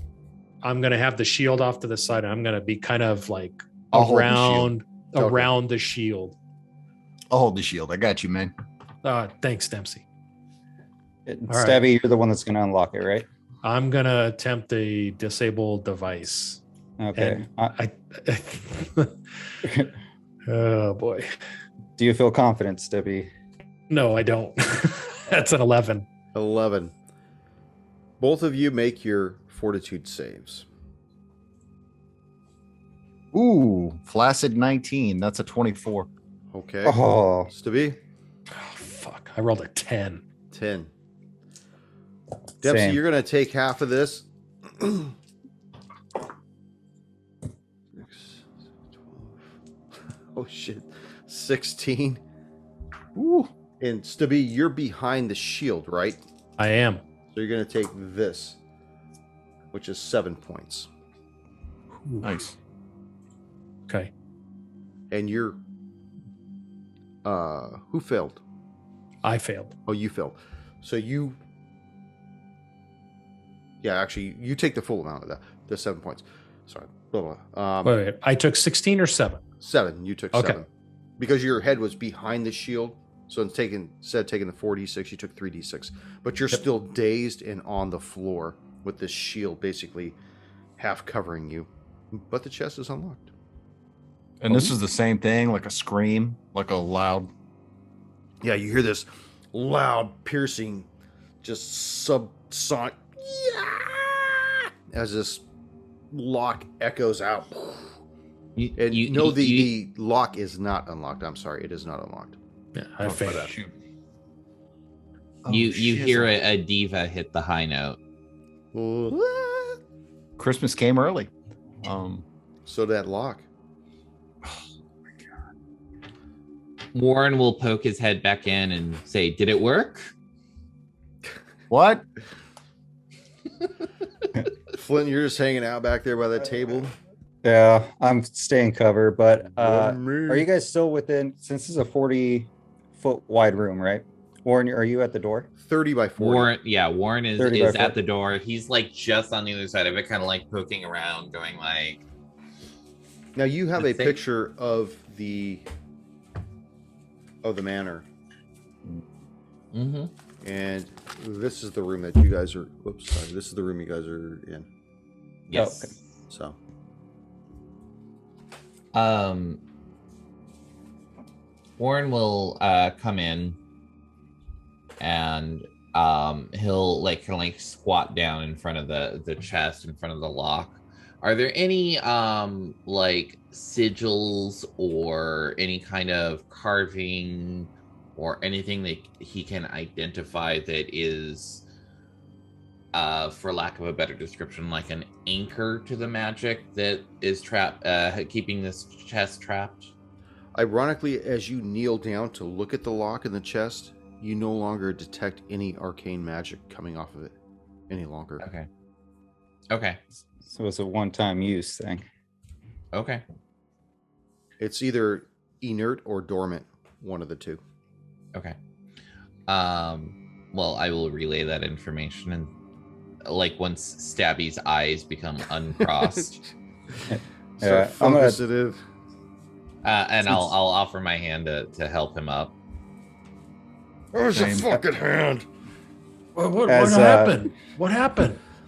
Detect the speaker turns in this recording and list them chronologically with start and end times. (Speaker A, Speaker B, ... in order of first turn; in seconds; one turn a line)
Speaker A: 0.6-6.3
Speaker B: 3.9-4.7
Speaker C: 5.2-5.5
Speaker B: 7.3-8.5
Speaker A: 9.0-10.0
Speaker D: 11.2-13.2
Speaker A: 11.5-11.8
Speaker A: 13.6-16.6
Speaker D: 17.0-17.7
Speaker A: 17.1-19.5
Speaker A: 20.4-21.4
Speaker D: 22.0-23.3
Speaker A: 23.9-26.1
Speaker C: 26.3-26.9
Speaker C: 28.2-30.6
Speaker B: 33.3-36.1
Speaker C: 36.5-38.0
Speaker D: 36.8-37.5
Speaker A: 38.5-40.2
Speaker C: 40.5-40.9
Speaker C: 42.6-45.1
Speaker D: 42.6-43.0
Speaker C: 47.9-49.5
Speaker C: 50.3-52.2
Speaker B: 53.1-53.5
Speaker C: 53.8-56.2
Speaker A: 56.6-57.0
Speaker C: 57.3-58.6
Speaker C: 59.7-60.9
Speaker A: 62.0-62.4
Speaker B: 62.2-62.5
Speaker C: 65.1-65.6
Speaker C: 67.2-68.4
Speaker A: 69.2-69.7
Speaker C: 69.9-71.4
Speaker C: 73.8-78.0
Speaker A: 77.8-79.4
Speaker C: 79.6-80.7
Speaker A: 80.3-80.6
Speaker C: 81.2-90.2
Speaker C: 90.8-93.3
Speaker B: 94.4-97.3
Speaker C: 98.4-100.9
Speaker C: 101.4-105.4
Speaker C: 106.1-108.0
Speaker E: 108.5-109.7
Speaker C: 108.8-112.4
Speaker A: 112.7-113.5
Speaker B: 113.0-113.7
Speaker B: 115.4-116.3
Speaker E: 115.5-118.0
Speaker C: 118.7-119.8
Speaker B: 120.4-121.3
Speaker B: 121.8-122.2
Speaker C: 122.7-123.5
Speaker E: 126.9-130.1
Speaker B: 131.7-132.0
Speaker C: 134.7-136.9
Speaker D: 137.4-145.5
Speaker C: 139.4-140.5
Speaker C: 145.6-146.5
Speaker E: 146.2-152.0
Speaker D: 147.4-148.0
Speaker C: 153.3-155.7
Speaker E: 153.8-154.2
Speaker C: 157.4-158.1
Speaker E: 159.7-160.1
Speaker C: 160.4-164.7
Speaker E: 165.5-165.9
Speaker D: 165.5-165.9
Speaker C: 166.3-166.6
Speaker E: 168.9-169.6
Speaker E: 171.8-173.6
Speaker E: 175.0-191.6
Speaker E: 192.9-199.9
Speaker C: 200.6-207.3
Speaker C: 207.9-208.5
Speaker E: 208.4-208.7
Speaker E: 209.7-210.0
Speaker D: 210.4-212.1
Speaker E: 212.9-213.2
Speaker C: 214.6-217.6
Speaker E: 219.5-222.5
Speaker E: 223.2-226.4
Speaker C: 225.8-226.2
Speaker C: 227.1-228.8
Speaker D: 227.1-228.4
Speaker E: 229.8-232.5
Speaker C: 234.1-235.4
Speaker B: 234.3-234.7
Speaker A: 236.3-238.4
Speaker D: 236.7-237.5